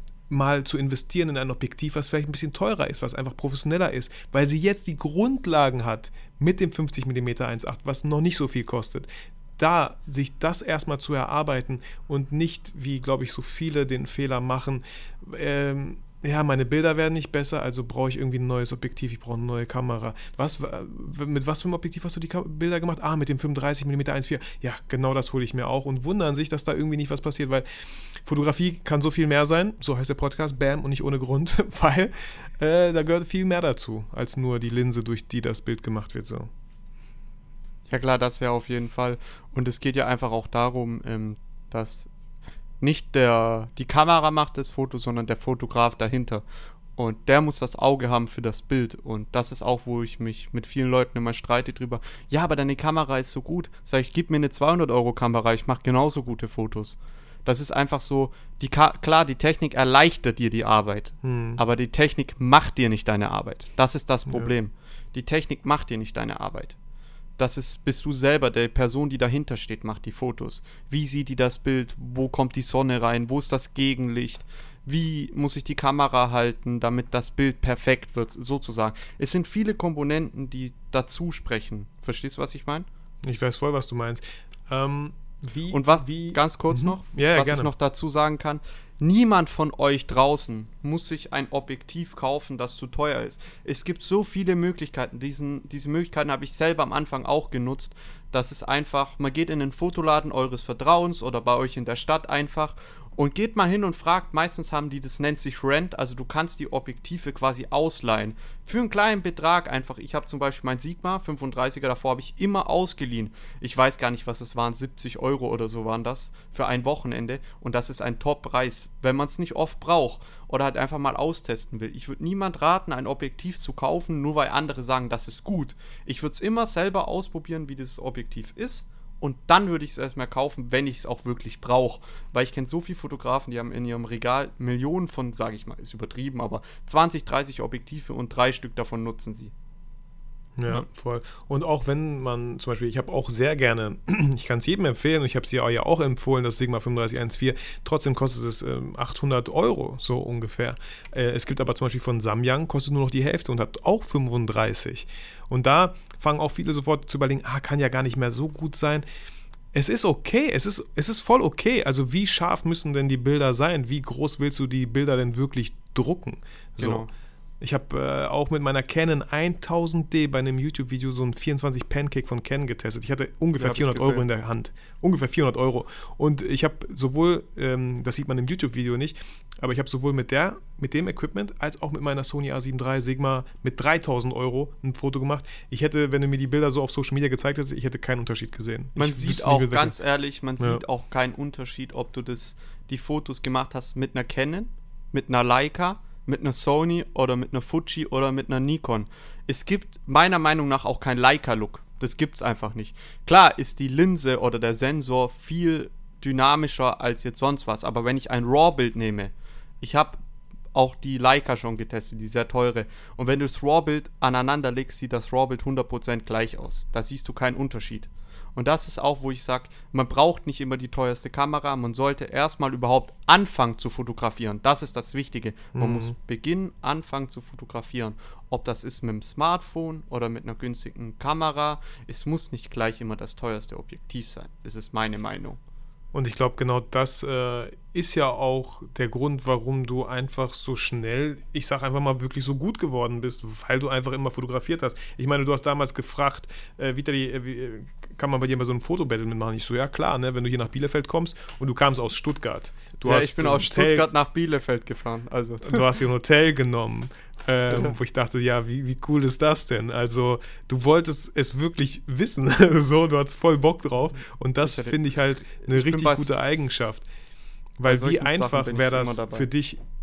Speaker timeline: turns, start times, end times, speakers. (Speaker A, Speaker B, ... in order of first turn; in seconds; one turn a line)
Speaker A: 0.3-36.5
Speaker B: 37.9-42.1
Speaker B: 42.8-46.4
Speaker B: 47.0-66.8
Speaker A: 61.2-61.6
Speaker B: 67.4-82.9
Speaker A: 83.2-87.7
Speaker B: 85.7-139.5
Speaker A: 140.6-159.1
Speaker A: 159.7-167.1
Speaker B: 166.8-167.1
Speaker A: 167.6-190.0
Speaker B: 173.6-174.2
Speaker B: 189.0-210.2
Speaker B: 210.7-235.6
Speaker A: 225.8-226.1
Speaker A: 236.1-254.1
Speaker B: 253.0-255.9
Speaker A: 255.6-267.1
Speaker B: 264.6-266.9
Speaker A: 267.8-269.8
Speaker B: 267.9-269.5